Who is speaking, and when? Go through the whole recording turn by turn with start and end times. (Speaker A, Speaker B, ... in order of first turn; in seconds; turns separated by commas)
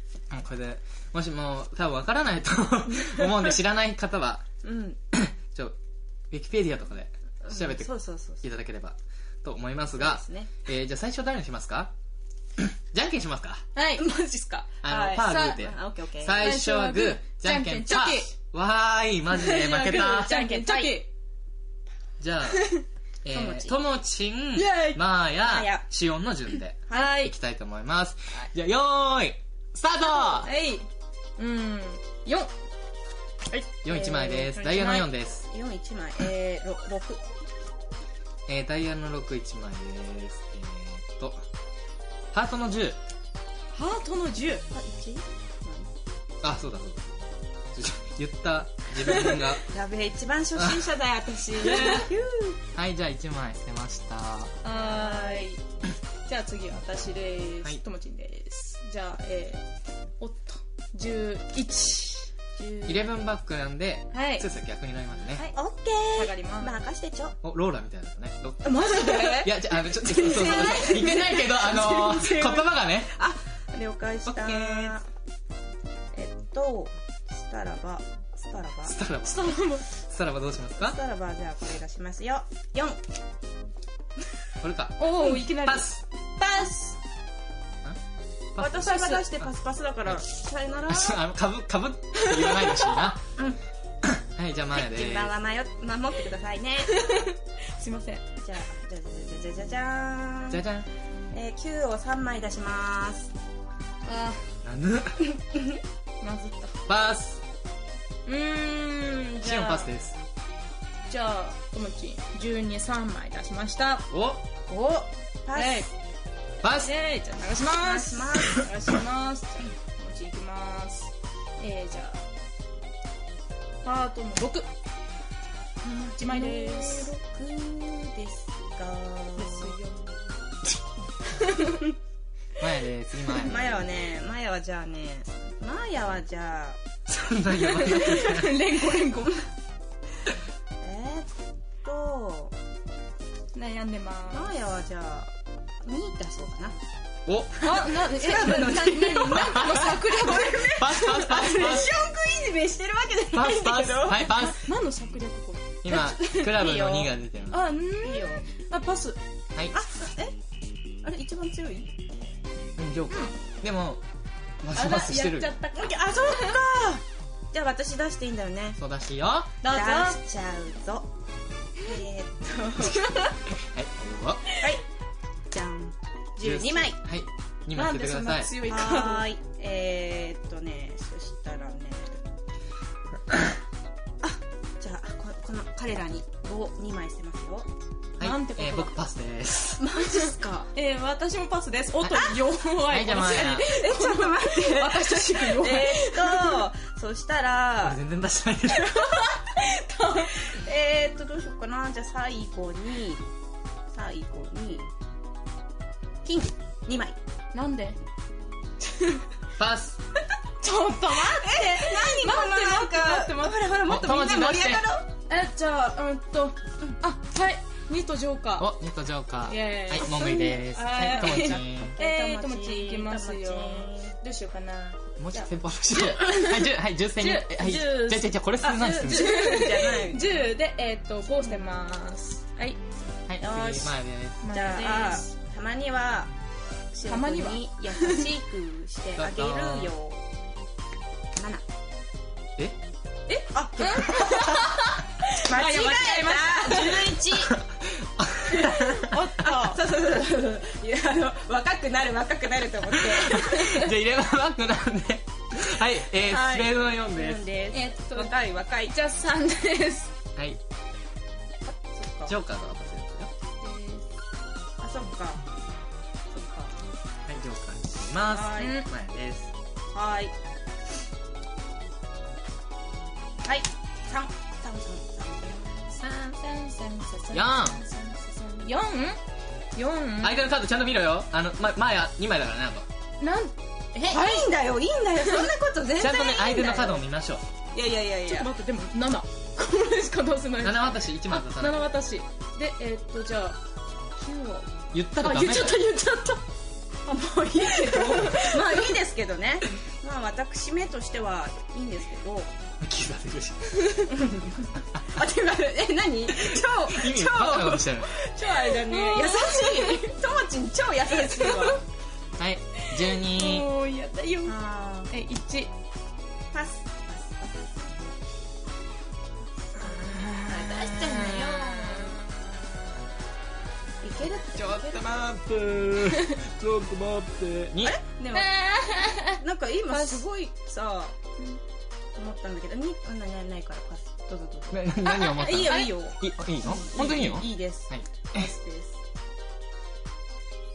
Speaker A: 0.3-4.5, Speaker B: 4.6-5.0, Speaker A: 5.1-5.8, Speaker A: 6.3-11.9, Speaker B: 7.4-8.4, Speaker B: 10.0-10.5, Speaker A: 12.6-13.7, Speaker C: 13.7-14.0, Speaker B: 13.9-16.5, Speaker A: 14.8-20.4, Speaker C: 15.2-15.6, Speaker C: 16.3-18.3, Speaker C: 19.3-21.1, Speaker B: 20.1-21.0, Speaker A: 22.2-22.7, Speaker A: 23.2-30.5, Speaker B: 23.3-23.8, Speaker C: 24.5-25.0, Speaker B: 25.4-25.8, Speaker B: 26.9-27.1, Speaker C: 26.9-27.3, Speaker C: 30.3-30.9, Speaker C: 31.4-32.5, Speaker A: 33.8-35.5, Speaker B: 33.9-37.2, Speaker C: 34.6-35.0, Speaker A: 38.5-41.4, Speaker A: 42.3-43.0, Speaker C: 43.7-44.7, Speaker B: 44.7-45.9, Speaker A: 46.4-47.1, Speaker A: 47.7-49.6, Speaker B: 49.0-52.6, Speaker A: 50.5-50.9, Speaker C: 51.6-52.1, Speaker A: 51.7-52.0, Speaker A: 52.7-54.5, Speaker C: 54.6-55.6, Speaker B: 54.7-55.5, Speaker C: 56.2-59.6, Speaker C: 60.2-62.9, Speaker A: 62.9-65.4, Speaker C: 64.1-64.5, Speaker B: 65.5-67.3, Speaker C: 66.1-66.8, Speaker A: 67.4-73.1, Speaker C: 68.6-69.5, Speaker B: 68.8-75.0, Speaker C: 70.2-71.2, Speaker A: 74.2-74.7, Speaker B: 76.1-79.0, Speaker A: 78.8-81.0, Speaker C: 79.2-79.9, Speaker B: 80.8-83.0, Speaker A: 84.6-86.0, Speaker C: 85.0-85.9, Speaker B: 86.4-86.9, Speaker A: 88.5-89.5, Speaker B: 88.6-91.2, Speaker C: 88.8-89.2, Speaker A: 90.9-93.2, Speaker C: 92.2-93.0, Speaker A: 94.0-95.3, Speaker B: 94.7-97.2, Speaker C: 96.9-98.2, Speaker B: 98.4-100.6, Speaker A: 100.5-100.9, Speaker B: 101.3-103.3, Speaker C: 104.0-104.5, Speaker A: 104.6-105.3, Speaker B: 105.3-105.8, Speaker C: 106.2-106.8, Speaker A: 106.9-107.4, Speaker C: 108.2-109.9, Speaker A: 109.4-110.2, Speaker C: 111.1-114.1, Speaker A: 114.1-114.4, Speaker B: 114.7-115.9, Speaker C: 115.5-115.9, Speaker A: 116.6-116.9, Speaker C: 116.8-122.2, Speaker B: 117.8-118.7, Speaker C: 123.8-124.7, Speaker B: 125.8-129.8, Speaker C: 126.2-127.1, Speaker C: 129.4-130.4, Speaker C: 131.3-131.8, Speaker A: 132.6-133.8, Speaker B: 133.3-136.8, Speaker A: 137.1-138.6, Speaker C: 137.5-139.4, Speaker B: 138.8-139.2, Speaker B: 140.8-142.5, Speaker C: 143.5-144.5, Speaker B: 144.3-146.8, Speaker A: 147.2-147.7, Speaker C: 147.6-151.8, Speaker B: 147.6-154.3, Speaker A: 149.4-149.9, Speaker A: 150.6-151.9, Speaker A: 153.3-154.6, Speaker C: 154.3-156.5, Speaker A: 155.8-157.7, Speaker B: 155.9-157.1, Speaker C: 157.5-159.2, Speaker B: 158.0-158.4, Speaker B: 159.7-160.3, Speaker B: 161.0-162.1, Speaker A: 162.8-164.0, Speaker A: 164.6-165.6, Speaker C: 164.7-166.6, Speaker B: 165.7-168.8, Speaker A: 168.8-169.6, Speaker C: 169.6-170.2, Speaker B: 169.7-171.1, Speaker B: 171.8-173.1, Speaker C: 172.8-173.3, Speaker A: 173.4-174.4, Speaker B: 174.6-174.8, Speaker B: 175.5-177.0, Speaker A: 176.4-178.5, Speaker C: 177.7-179.3, Speaker B: 178.6-182.2, Speaker B: 184.2-187.7, Speaker A: 188.2-189.8, Speaker C: 188.2-189.0, Speaker B: 189.8-190.7, Speaker C: 190.7-196.7, Speaker A: 192.0-193.7, Speaker B: 193.3-198.0, Speaker A: 197.8-199.0, Speaker C: 198.9-200.3, Speaker B: 199.1-199.6, Speaker B: 200.2-203.2, Speaker B: 203.9-204.9, Speaker B: 206.2-207.2, Speaker C: 207.5-208.0, Speaker C: 208.8-209.2, Speaker A: 209.6-210.0, Speaker C: 210.6-213.8, Speaker B: 211.1-215.1, Speaker A: 213.8-214.8, Speaker C: 215.3-218.7, Speaker A: 218.6-221.9, Speaker C: 219.4-232.8, Speaker B: 220.0-224.2, Speaker A: 225.2-229.5, Speaker B: 228.7-230.5, Speaker A: 233.3-234.5, Speaker B: 233.4-233.9, Speaker C: 234.4-235.3, Speaker B: 234.5-236.3, Speaker B: 236.9-240.2, Speaker C: 237.0-238.3, Speaker A: 239.2-239.9, Speaker B: 241.4-241.6, Speaker C: 243.3-247.2, Speaker B: 243.5-247.5, Speaker A: 247.5-249.2, Speaker B: 248.5-253.8, Speaker C: 248.6-249.8, Speaker A: 253.1-257.4, Speaker B: 256.2-258.9, Speaker C: 257.7-260.1, Speaker B: 261.6-262.3, Speaker A: 262.3-263.3, Speaker C: 263.6-264.1, Speaker B: 264.8-265.4, Speaker B: 266.3-266.8, Speaker A: 267.3-269.5, Speaker B: 268.3-268.8, Speaker C: 268.6-268.9, Speaker B: 269.9-270.3, Speaker B: 273.4-275.9, Speaker C: 276.0-279.2, Speaker A: 277.3-277.8, Speaker C: 279.7-280.4, Speaker A: 280.2-282.9, Speaker C: 283.2-284.5, Speaker B: 284.0-287.0, Speaker C: 285.2-285.5, Speaker A: 286.0-287.4, Speaker B: 287.7-288.5, Speaker C: 288.3-293.6, Speaker A: 290.6-291.9, Speaker C: 294.1-296.4, Speaker A: 294.9-295.8, Speaker B: 297.1-302.5, Speaker C: 297.6-299.0, Speaker A: 302.8-303.9, Speaker B: 304.1-311.8, Speaker A: 306.3-308.1, Speaker C: 308.4-310.1, Speaker C: 311.1-311.8, Speaker A: 312.4-313.7, Speaker C: 312.8-314.5, Speaker B: 314.4-315.1, Speaker C: 315.1-315.7, Speaker B: 316.5-317.7, Speaker C: 319.8-322.5, Speaker B: 319.8-322.2, Speaker B: 324.0-325.0, Speaker A: 324.5-328.0, Speaker C: 326.1-326.4, Speaker B: 327.8-328.6, Speaker C: 328.3-330.4, Speaker B: 329.1-331.2, Speaker B: 332.1-339.0, Speaker A: 334.7-338.5, Speaker C: 335.3-336.0